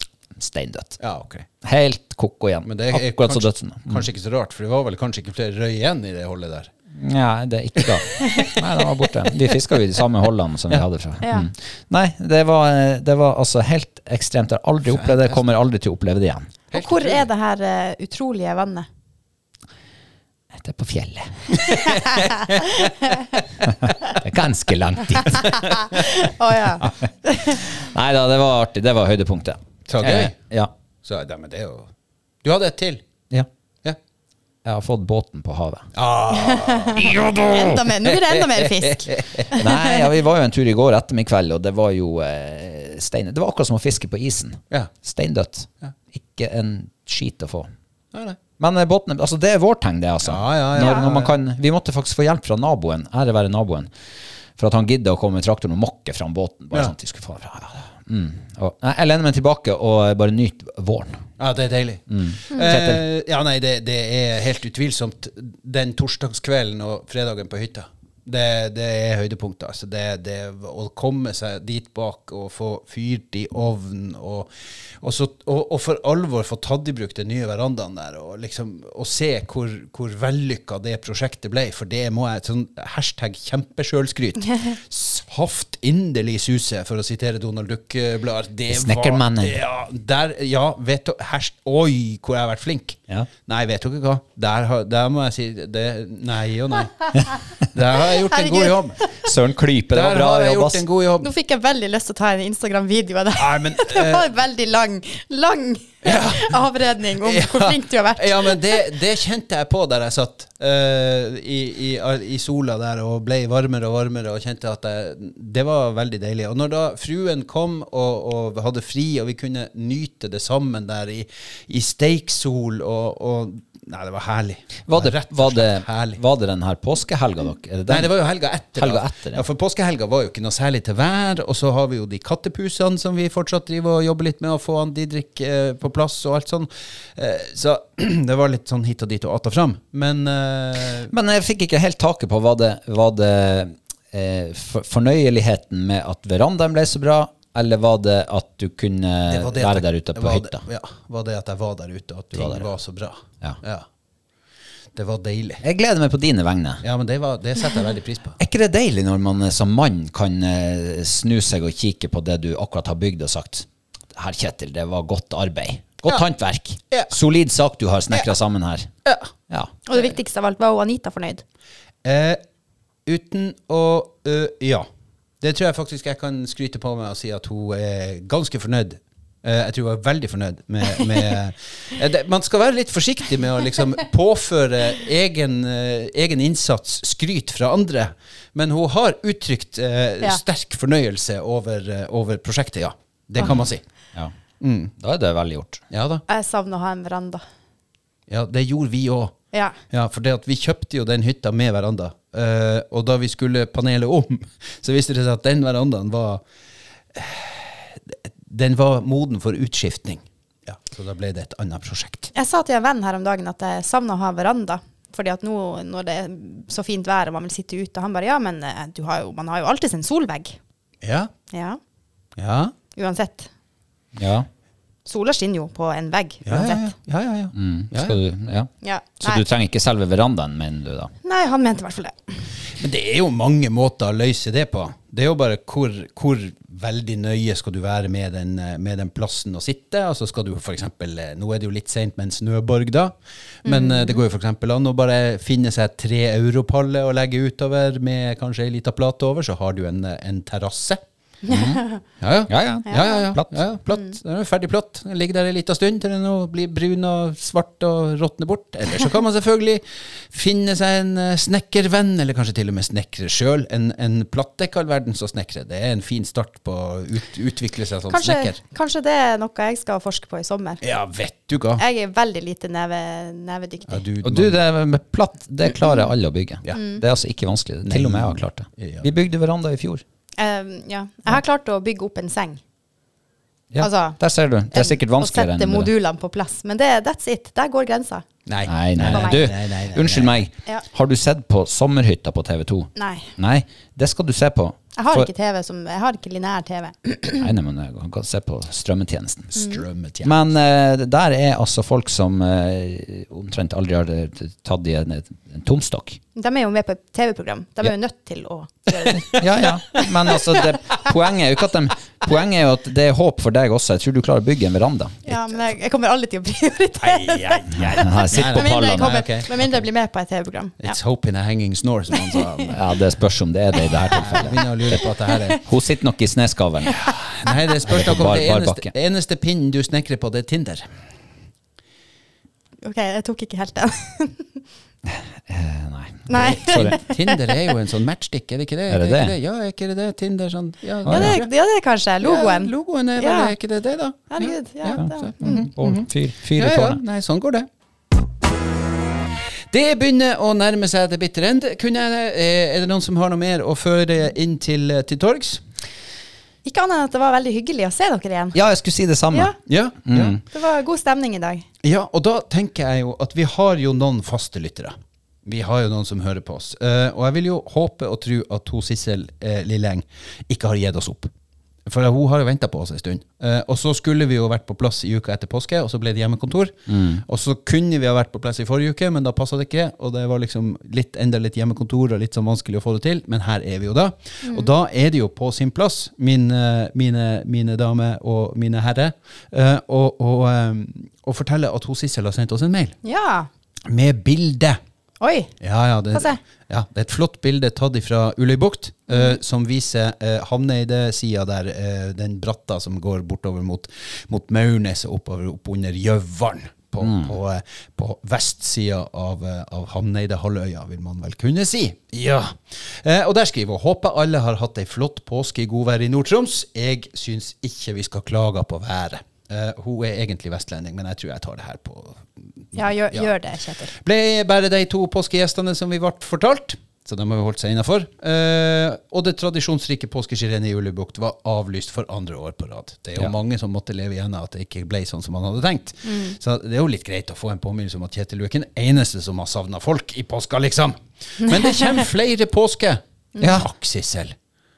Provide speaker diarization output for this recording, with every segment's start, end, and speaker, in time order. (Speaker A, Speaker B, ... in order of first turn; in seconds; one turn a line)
Speaker A: 0.3-1.0
Speaker B: 1.0-1.5
Speaker A: 1.6-4.1
Speaker B: 2.6-6.7
Speaker A: 6.9-16.5
Speaker B: 7.8-8.7
Speaker C: 8.2-8.5
Speaker C: 11.2-11.5
Speaker B: 14.9-15.4
Speaker B: 16.7-17.2
Speaker C: 16.7-18.9
Speaker A: 20.5-21.5
Speaker B: 21.6-22.0
Speaker C: 21.6-23.4
Speaker A: 23.6-25.8
Speaker C: 25.3-27.6
Speaker A: 27.5-30.7
Speaker B: 29.9-30.4
Speaker B: 31.0-31.9
Speaker B: 32.4-33.0
Speaker A: 34.6-35.9
Speaker B: 35.9-39.5
Speaker C: 36.3-40.1
Speaker A: 39.5-47.7
Speaker B: 48.1-48.4
Speaker A: 48.6-53.9
Speaker B: 50.2-51.3
Speaker C: 50.8-51.1
Speaker A: 54.6-61.2
Speaker B: 61.4-74.5
Speaker A: 62.1-63.0
Speaker B: 75.0-99.0
Speaker A: 88.7-89.5
Speaker C: 98.3-99.2
Speaker A: 99.2-100.8
Speaker B: 99.9-101.3
Speaker C: 101.2-108.8
Speaker B: 103.3-104.3
Speaker B: 106.0-106.7
Speaker B: 107.2-126.2
Speaker A: 124.9-128.1
Speaker B: 127.9-141.1
Speaker A: 128.8-129.4
Speaker A: 141.1-150.6
Speaker B: 149.3-153.8
Speaker A: 152.3-152.7
Speaker B: 154.9-155.6
Speaker A: 155.6-156.8
Speaker B: 156.8-158.4
Speaker A: 158.4-168.9
Speaker B: 169.0-169.3
Speaker C: 169.9-171.4
Speaker B: 172.0-172.4
Speaker B: 173.1-174.8
Speaker B: 175.4-193.8
Speaker A: 193.4-194.3
Speaker B: 194.6-194.9
Speaker A: 195.0-195.8
Speaker B: 195.9-196.2
Speaker C: 196.3-197.4
Speaker B: 198.3-199.3
Speaker B: 199.9-206.4
Speaker B: 207.1-212.3
Speaker C: 212.3-220.6
Speaker B: 221.0-221.3
Speaker C: 221.5-221.8
Speaker B: 222.4-222.7
Speaker C: 222.9-223.5
Speaker A: 224.2-224.5
Speaker C: 225.1-226.9
Speaker B: 226.4-228.2
Speaker A: 227.5-231.1
Speaker C: 228.8-229.4
Speaker C: 231.2-232.4
Speaker B: 232.8-243.1
Speaker C: 243.6-244.2
Speaker B: 243.6-251.0
Speaker C: 251.4-252.0
Speaker A: 251.5-251.8
Speaker B: 252.2-268.6
Speaker A: 252.5-253.6
Speaker C: 252.9-253.3
Speaker C: 268.1-270.8
Speaker B: 270.8-271.8
Speaker C: 271.8-274.0
Speaker B: 273.9-274.6
Speaker A: 274.2-280.0
Speaker C: 276.7-277.0
Speaker B: 277.8-279.1
Speaker C: 280.4-282.6
Speaker A: 283.7-285.9
Speaker C: 283.8-284.2
Speaker C: 284.7-288.2
Speaker B: 288.4-290.4
Speaker A: 288.6-295.3
Speaker C: 289.1-289.5
Speaker C: 292.9-293.3
Speaker C: 294.9-297.5
Speaker A: 297.4-299.6
Speaker C: 299.5-299.8
Speaker B: 299.5-300.5
Speaker A: 300.2-306.2
Speaker C: 306.4-310.7
Speaker B: 309.0-310.2
Speaker A: 309.3-315.4
Speaker C: 315.2-321.0
Speaker B: 317.0-319.6
Speaker A: 317.8-319.2
Speaker B: 320.8-322.8
Speaker C: 322.2-322.7
Speaker A: 322.7-325.0
Speaker B: 323.9-325.6
Speaker C: 325.0-325.6
Speaker A: 325.6-327.0
Speaker B: 326.9-330.8
Speaker C: 327.4-327.7
Speaker A: 327.9-328.9
Speaker C: 332.8-334.5
Speaker A: 335.1-336.9
Speaker C: 336.3-337.6
Speaker B: 336.4-341.5
Speaker A: 338.9-339.3
Speaker A: 341.0-341.4
Speaker C: 341.1-343.5
Speaker B: 342.2-347.7
Speaker C: 344.3-345.7
Speaker A: 344.9-347.0
Speaker B: 349.7-355.6
Speaker C: 356.6-358.6
Speaker A: 358.5-359.5
Speaker C: 359.3-359.6
Speaker B: 359.7-360.4
Speaker A: 360.1-360.4
Speaker C: 360.4-361.6
Speaker B: 361.8-364.9
Speaker B: 365.4-371.3
Speaker B: 371.9-393.0
Speaker A: 376.9-377.2
Speaker C: 384.4-384.7
Speaker C: 393.0-393.5
Speaker B: 393.9-394.8
Speaker C: 395.2-395.5
Speaker B: 395.6-423.3
Speaker C: 396.1-396.4
Speaker C: 399.1-399.4
Speaker A: 407.0-407.3
Speaker C: 422.7-423.9
Speaker B: 423.9-444.4
Speaker C: 436.1-436.4
Speaker C: 441.4-441.7
Speaker A: 443.4-443.7